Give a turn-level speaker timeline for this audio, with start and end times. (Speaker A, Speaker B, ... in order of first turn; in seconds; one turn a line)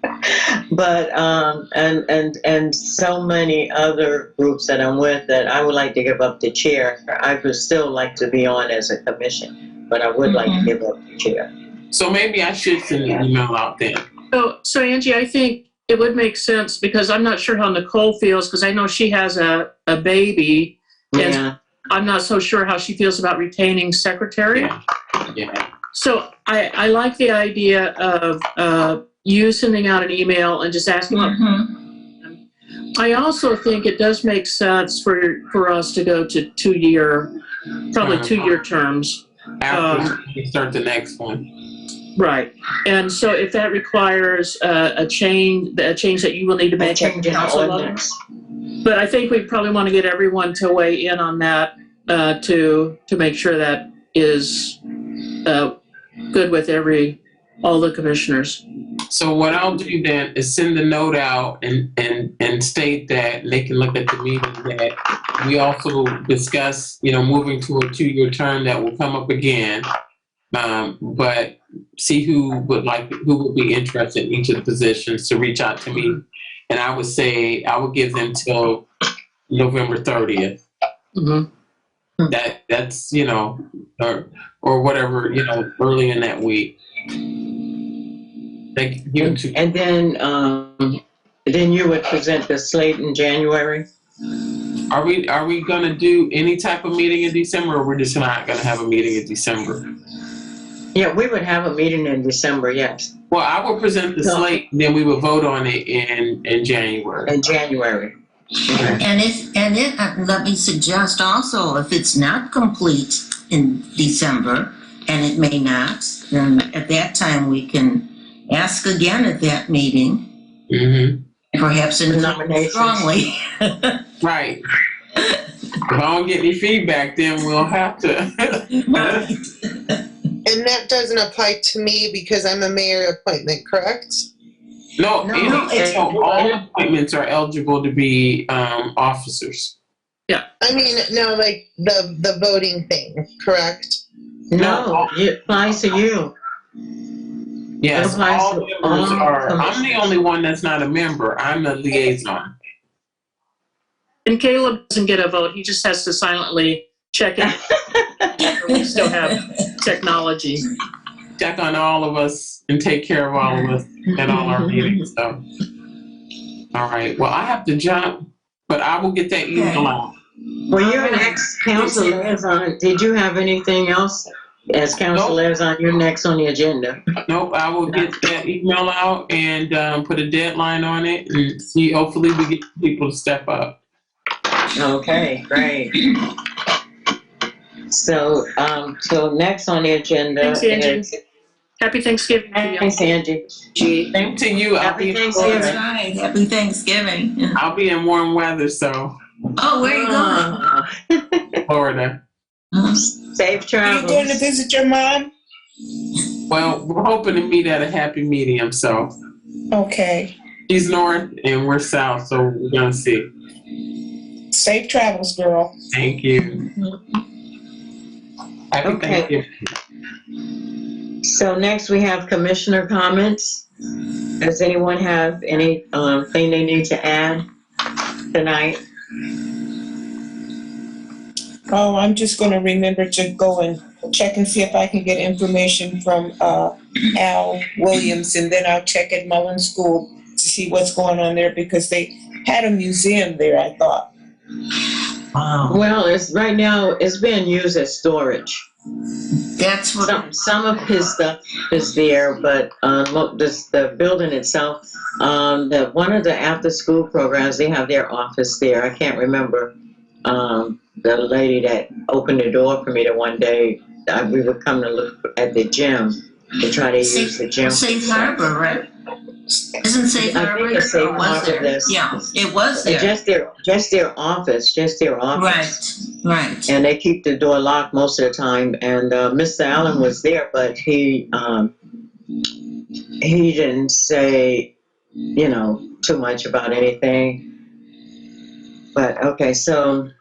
Speaker A: 0.3-11.4
Speaker B: 10.3-10.7
Speaker C: 11.9-14.0
Speaker D: 14.3-24.7
Speaker A: 21.1-21.5
Speaker C: 25.3-25.6
Speaker D: 25.9-31.4
Speaker B: 31.1-31.7
Speaker D: 33.0-37.3
Speaker D: 37.9-40.1
Speaker C: 38.0-38.5
Speaker C: 39.6-41.4
Speaker D: 42.1-48.0
Speaker A: 46.8-48.1
Speaker D: 48.8-54.8
Speaker D: 55.4-55.7
Speaker D: 56.3-58.6
Speaker C: 59.1-69.8
Speaker C: 70.5-78.8
Speaker C: 79.5-80.6
Speaker D: 81.2-81.5
Speaker C: 82.3-86.7
Speaker C: 88.7-89.5
Speaker A: 89.2-93.8
Speaker C: 94.9-99.8
Speaker A: 100.9-103.1
Speaker C: 103.3-107.3
Speaker A: 104.2-104.5
Speaker A: 107.3-108.1
Speaker A: 108.7-109.0
Speaker B: 109.0-120.3
Speaker C: 120.7-121.2
Speaker B: 121.5-124.0
Speaker A: 122.1-123.1
Speaker C: 124.2-124.6
Speaker C: 125.9-129.3
Speaker B: 128.9-129.3
Speaker E: 130.4-134.3
Speaker C: 135.0-139.7
Speaker A: 135.2-136.6
Speaker B: 135.4-136.1
Speaker E: 140.6-144.0
Speaker A: 144.5-146.3
Speaker C: 144.6-145.1
Speaker C: 147.8-152.5
Speaker A: 147.9-150.1
Speaker D: 154.2-157.5
Speaker A: 157.4-158.2
Speaker D: 158.4-160.6
Speaker B: 158.4-159.6
Speaker C: 161.4-165.4
Speaker A: 164.3-164.7
Speaker C: 166.7-168.2
Speaker C: 168.7-170.1
Speaker B: 169.5-169.8
Speaker A: 170.7-177.0
Speaker B: 170.7-172.2
Speaker C: 177.3-183.8
Speaker A: 184.7-185.9
Speaker A: 187.9-191.0
Speaker D: 190.4-191.2
Speaker D: 191.8-193.0
Speaker A: 192.5-193.7
Speaker C: 194.1-195.8
Speaker A: 194.8-195.8
Speaker B: 195.4-197.6
Speaker C: 197.6-199.1
Speaker B: 199.6-200.5
Speaker A: 199.8-201.5
Speaker C: 201.7-202.2
Speaker B: 202.7-203.1
Speaker A: 203.2-204.4
Speaker F: 203.8-205.3
Speaker C: 206.5-209.1
Speaker F: 209.7-210.3
Speaker C: 210.7-213.3
Speaker F: 214.5-215.7
Speaker C: 215.9-216.6
Speaker C: 218.7-219.4
Speaker A: 218.8-219.3
Speaker A: 221.2-223.6
Speaker A: 224.4-227.4
Speaker A: 228.3-228.8
Speaker F: 231.7-244.1
Speaker A: 245.7-248.7
Speaker B: 249.6-250.2
Speaker A: 250.0-259.7
Speaker A: 260.2-268.6
Speaker B: 267.0-268.8
Speaker B: 269.8-273.1
Speaker A: 270.2-272.0
Speaker A: 272.8-275.8
Speaker B: 275.4-276.7
Speaker A: 276.7-281.7
Speaker A: 283.2-284.7
Speaker A: 285.3-287.4
Speaker A: 288.9-290.1